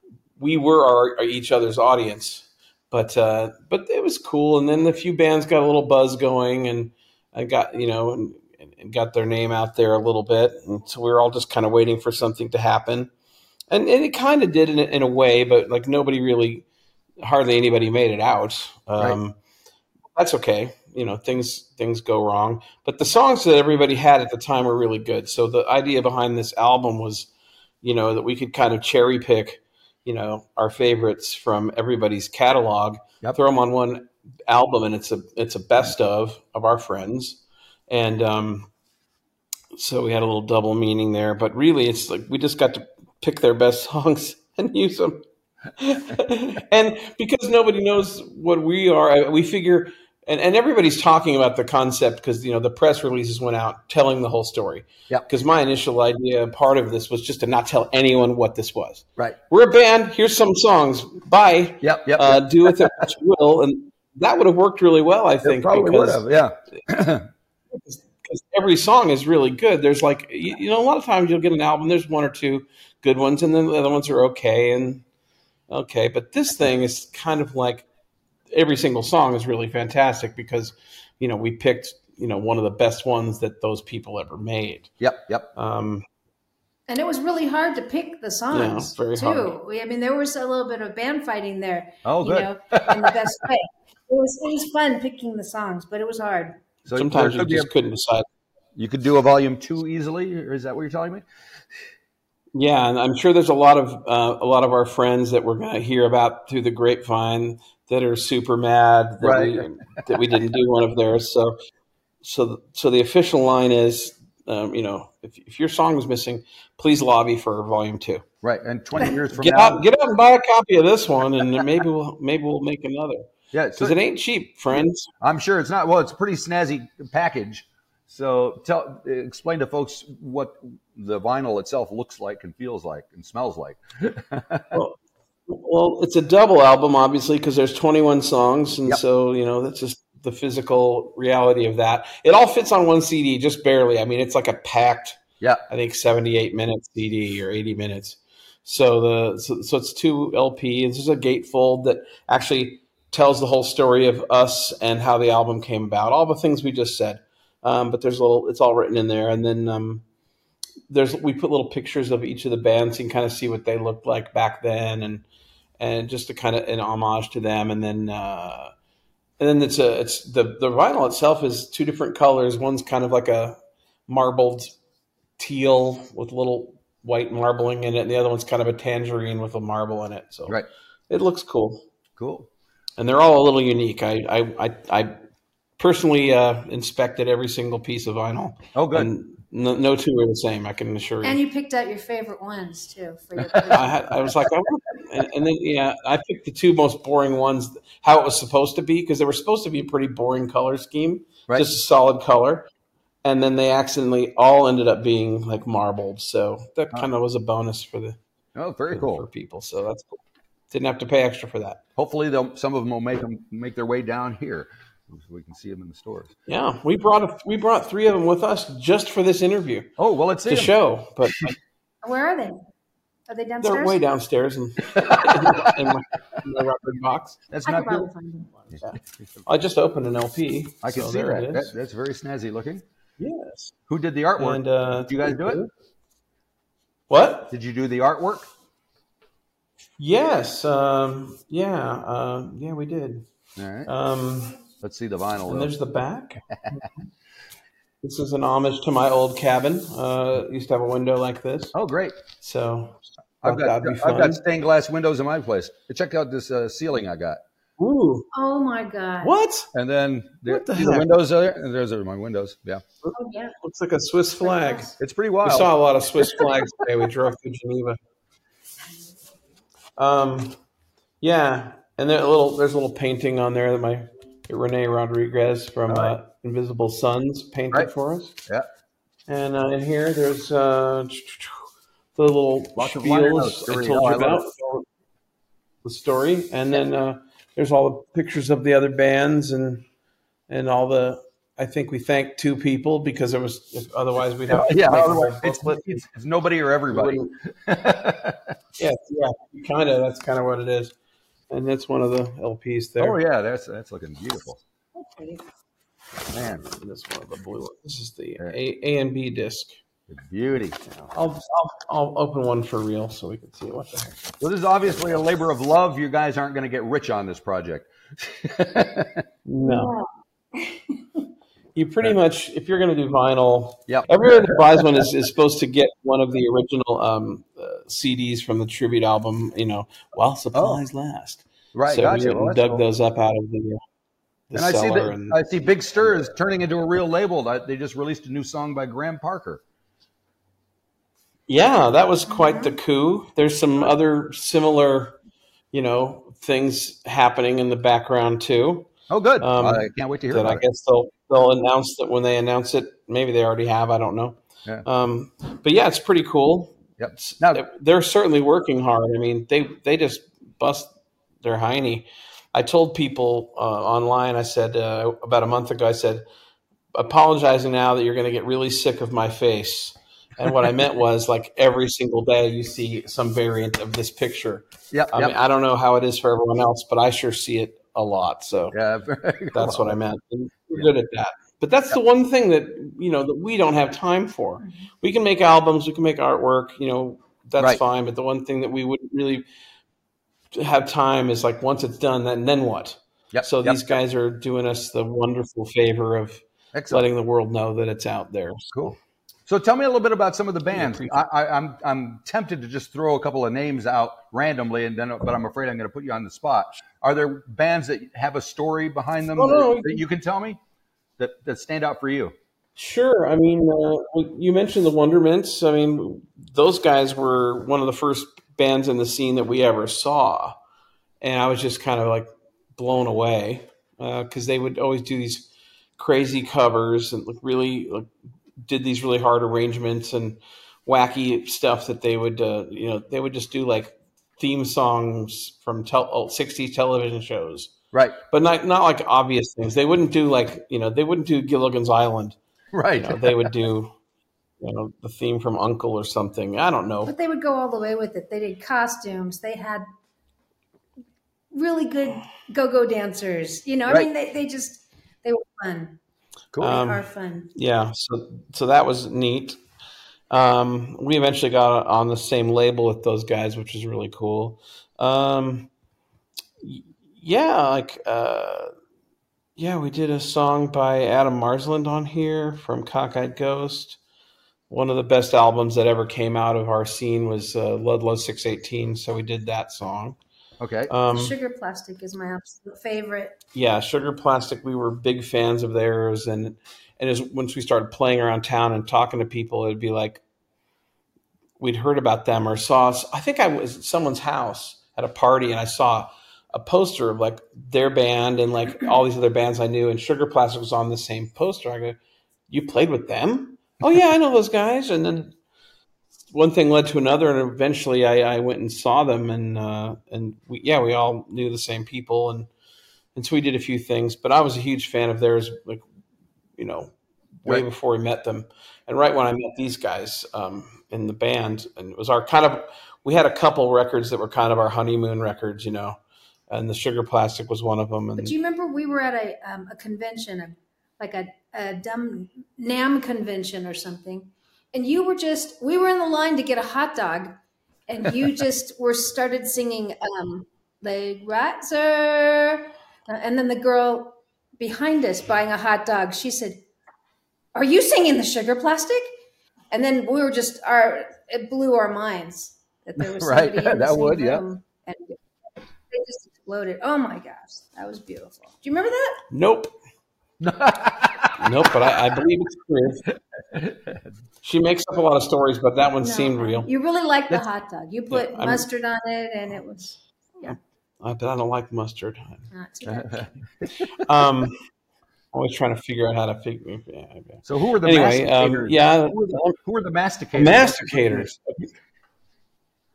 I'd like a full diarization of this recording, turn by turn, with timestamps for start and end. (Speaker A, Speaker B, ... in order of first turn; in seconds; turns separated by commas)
Speaker A: 0.4-13.1, Speaker A: 13.7-16.6, Speaker A: 17.2-19.4, Speaker A: 20.1-27.3, Speaker A: 27.8-38.7, Speaker A: 39.7-45.2, Speaker A: 45.8-66.2, Speaker B: 61.8-62.9, Speaker B: 65.4-67.3, Speaker A: 67.7-75.0, Speaker A: 75.7-77.9, Speaker A: 78.5-84.9, Speaker B: 85.0-85.5, Speaker A: 85.5-86.0, Speaker C: 86.9-96.6, Speaker A: 88.5-89.5, Speaker B: 92.0-93.3, Speaker B: 96.9-97.7, Speaker A: 96.9-98.3, Speaker B: 98.8-101.2, Speaker A: 102.5-111.5, Speaker B: 109.2-110.2, Speaker A: 112.2-118.2, Speaker B: 118.4-119.8, Speaker A: 119.3-125.1, Speaker B: 123.5-124.0, Speaker B: 124.7-134.8, Speaker A: 135.5-160.0, Speaker A: 160.9-165.2, Speaker A: 165.8-168.7, Speaker A: 169.4-173.6, Speaker A: 174.1-174.8, Speaker A: 175.4-180.6, Speaker A: 181.1-181.8, Speaker B: 182.2-182.5, Speaker A: 183.0-185.2, Speaker A: 185.8-191.4, Speaker B: 188.8-189.1, Speaker C: 191.2-194.1, Speaker A: 193.7-202.7, Speaker A: 203.2-208.2, Speaker B: 208.6-209.2, Speaker A: 208.9-210.2, Speaker A: 210.7-211.8, Speaker B: 212.0-216.3, Speaker A: 216.5-219.9, Speaker B: 220.0-220.7, Speaker A: 220.5-221.6, Speaker C: 222.0-222.6, Speaker C: 223.3-224.0, Speaker A: 223.6-227.4, Speaker B: 225.1-225.7, Speaker B: 227.5-228.1, Speaker C: 227.7-228.6, Speaker A: 228.8-231.7, Speaker B: 230.8-232.8, Speaker A: 233.2-233.8, Speaker B: 233.9-235.6, Speaker A: 234.4-235.7, Speaker A: 237.1-237.5, Speaker B: 237.5-238.5, Speaker A: 240.0-243.3, Speaker B: 243.6-243.9, Speaker A: 243.9-244.6, Speaker B: 244.8-245.7, Speaker A: 245.5-246.4, Speaker A: 248.0-251.8, Speaker B: 251.8-252.2, Speaker A: 252.4-254.4, Speaker B: 253.4-257.4, Speaker A: 257.8-258.3, Speaker C: 258.3-259.4, Speaker A: 259.2-259.7, Speaker B: 259.7-262.8, Speaker A: 260.5-261.1, Speaker A: 263.0-264.9, Speaker C: 263.1-263.6, Speaker C: 264.4-264.9, Speaker B: 265.0-265.7, Speaker A: 265.4-268.0, Speaker A: 270.0-270.6, Speaker A: 271.2-278.4, Speaker B: 275.9-276.1, Speaker A: 279.3-281.6, Speaker A: 282.2-284.9, Speaker B: 282.8-284.4, Speaker A: 285.8-289.9, Speaker A: 290.5-296.0, Speaker B: 294.5-298.5, Speaker A: 296.9-297.4, Speaker A: 298.8-300.9, Speaker A: 301.5-303.2, Speaker B: 303.0-304.6, Speaker C: 304.9-305.4, Speaker B: 306.3-306.6, Speaker A: 306.5-309.8, Speaker B: 310.1-310.8, Speaker A: 310.9-314.2, Speaker B: 314.4-319.2, Speaker A: 319.5-319.9, Speaker C: 319.6-321.0, Speaker A: 321.8-333.8, Speaker B: 323.9-324.6, Speaker B: 330.5-330.8, Speaker B: 331.7-332.8, Speaker A: 334.5-336.3, Speaker B: 334.5-339.6, Speaker A: 341.5-345.2, Speaker C: 342.3-342.7, Speaker A: 345.7-366.2, Speaker B: 349.1-350.6, Speaker B: 357.0-357.6, Speaker A: 366.9-378.8, Speaker B: 374.9-375.3, Speaker B: 378.7-380.0, Speaker A: 379.5-389.4, Speaker C: 384.6-384.9, Speaker A: 390.5-398.9, Speaker B: 393.3-393.8, Speaker B: 396.7-397.0, Speaker B: 399.5-410.6, Speaker A: 400.7-401.1, Speaker A: 409.3-410.0, Speaker B: 411.2-412.3, Speaker A: 412.8-420.6, Speaker A: 421.2-428.1, Speaker A: 428.6-437.7, Speaker B: 437.9-438.2, Speaker A: 438.3-442.4, Speaker B: 442.7-443.5, Speaker A: 443.0-443.9, Speaker A: 444.6-447.1, Speaker C: 447.1-449.9, Speaker C: 451.5-456.0, Speaker C: 456.6-457.5, Speaker A: 456.6-459.6, Speaker A: 460.3-465.7, Speaker A: 466.6-468.7, Speaker A: 469.6-474.0, Speaker A: 474.7-480.2, Speaker B: 480.6-480.9, Speaker A: 480.9-481.3, Speaker C: 481.1-483.4, Speaker A: 483.6-490.2, Speaker A: 491.6-502.0, Speaker A: 502.5-505.3, Speaker A: 506.3-512.5, Speaker A: 513.1-515.8, Speaker A: 516.6-516.9, Speaker A: 517.4-526.0, Speaker A: 526.5-528.3, Speaker C: 528.2-546.6, Speaker C: 547.5-549.1, Speaker C: 549.7-555.2, Speaker B: 553.0-554.4, Speaker C: 555.9-559.2, Speaker A: 559.3-559.7, Speaker B: 560.4-561.7, Speaker A: 561.4-563.1, Speaker B: 563.5-564.1, Speaker A: 564.4-566.7, Speaker C: 566.0-570.6, Speaker A: 568.1-568.7, Speaker A: 570.5-572.4, Speaker C: 572.5-573.4, Speaker B: 572.9-574.0, Speaker A: 574.0-574.6, Speaker A: 575.3-579.6, Speaker B: 577.5-581.3, Speaker A: 580.4-581.7